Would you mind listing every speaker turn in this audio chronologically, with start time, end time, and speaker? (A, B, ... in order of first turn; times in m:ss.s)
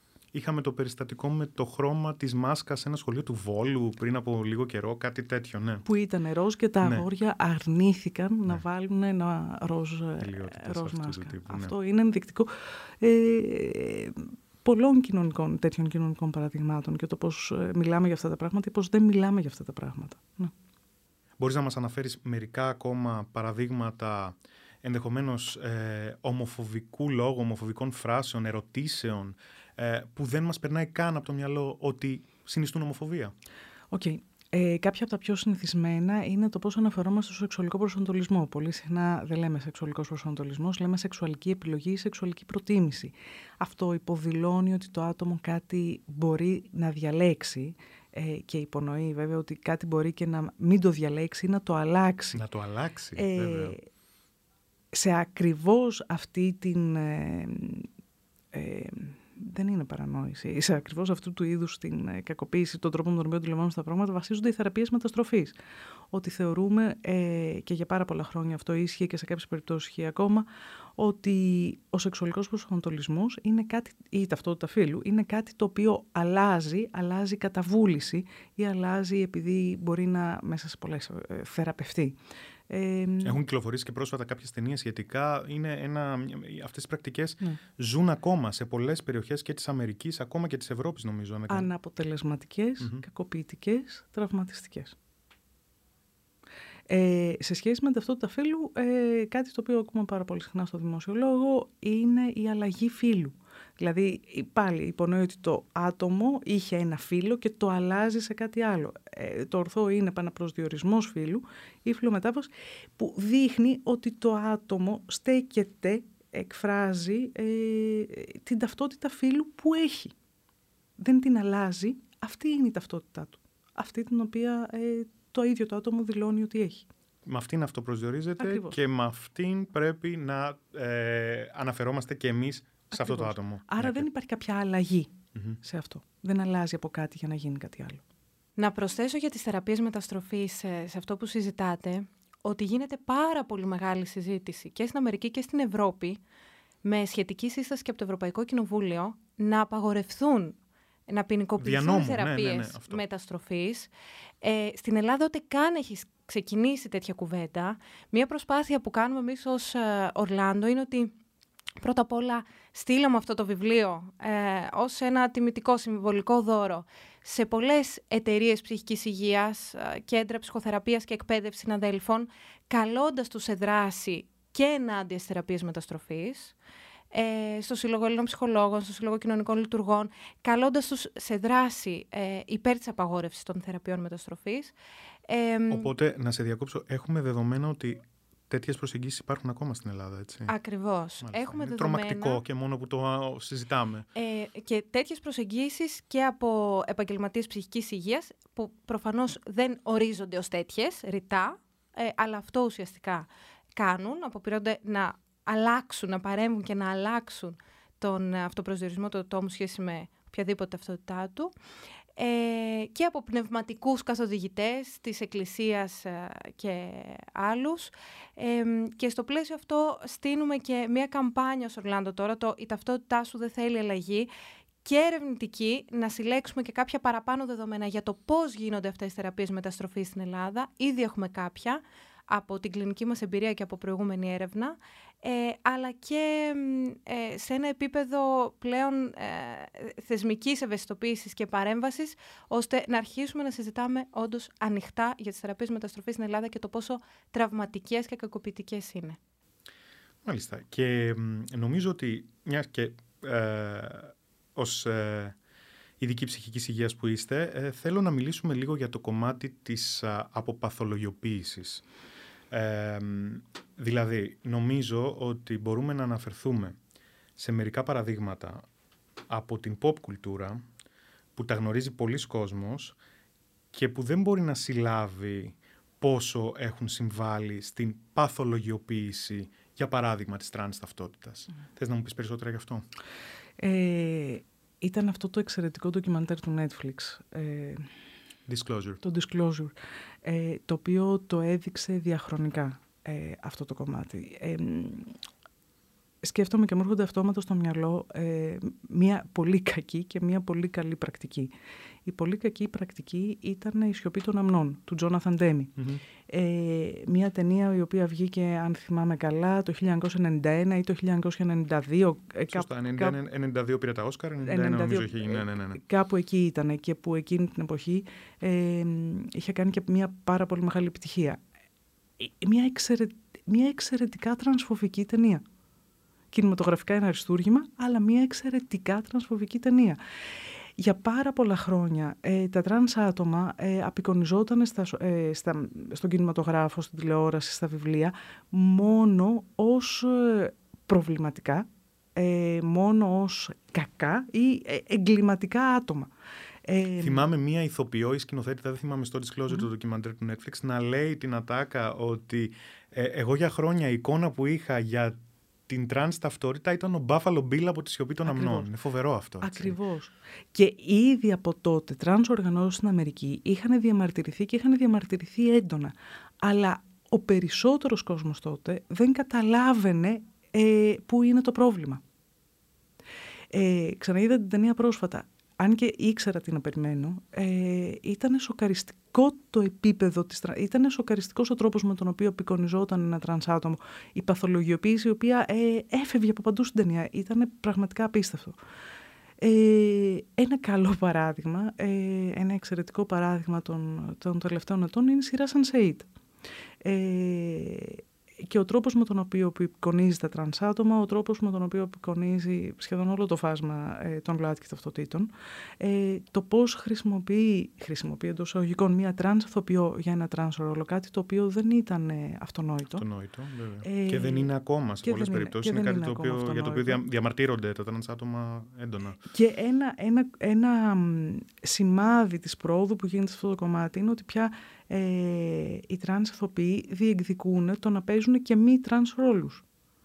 0:00.3-0:05.8 A
0:05.8-0:20.5 B
0:06.8-0:07.0 A
0:10.2-0:11.7 A
0:21.4-0:33.3 A
0:33.9-0:52.4 B
0:52.3-0:53.8 A
0:53.2-0:53.8 B
0:54.9-0:57.9 B
0:58.5-1:05.6 B
1:06.1-1:22.2 B
1:22.7-1:23.4 B
1:23.2-1:31.7 A
1:31.5-1:35.0 B
1:36.9-2:00.1 B
2:01.0-2:06.9 B
2:07.2-2:14.1 A
2:08.4-2:08.8 B
2:12.9-2:18.0 B
2:18.6-2:26.2 C
2:26.8-2:33.9 C
2:31.6-2:33.0 A
2:34.4-2:41.1 C
2:41.8-2:56.5 C
2:57.1-3:04.7 C
3:05.3-3:05.9 C
3:05.7-3:10.5 A
3:10.5-3:12.4 C
3:11.2-3:14.1 A
3:14.1-3:31.5 C
3:32.2-3:44.3 C
3:44.8-4:09.2 C
4:10.2-4:15.4 A
4:16.0-4:21.8 A
4:22.5-4:26.8 A
4:27.4-4:28.6 A
4:29.3-4:30.6 A
4:31.4-4:33.0 A
4:33.7-4:42.8 A
4:43.6-4:47.9 B
4:48.5-4:49.0 A
4:49.0-4:55.1 B
4:56.2-5:01.5 B
5:02.0-5:05.7 B
5:05.8-5:06.0 A
5:06.3-5:13.2 B
5:12.5-5:15.8 A
5:14.4-5:21.4 B
5:22.2-5:25.4 B
5:26.3-5:30.0 B
5:30.8-5:46.1 B
5:46.6-5:47.2 B
5:47.0-5:55.2 A
5:55.7-5:59.8 A
5:58.2-5:58.7 B
5:59.4-6:12.0 B
6:13.5-6:28.6 B
6:29.4-6:36.1 B
6:36.8-6:53.0 B
6:53.0-6:59.2 A
6:53.8-6:54.5 B
6:55.0-6:57.0 B
6:59.3-7:09.6 B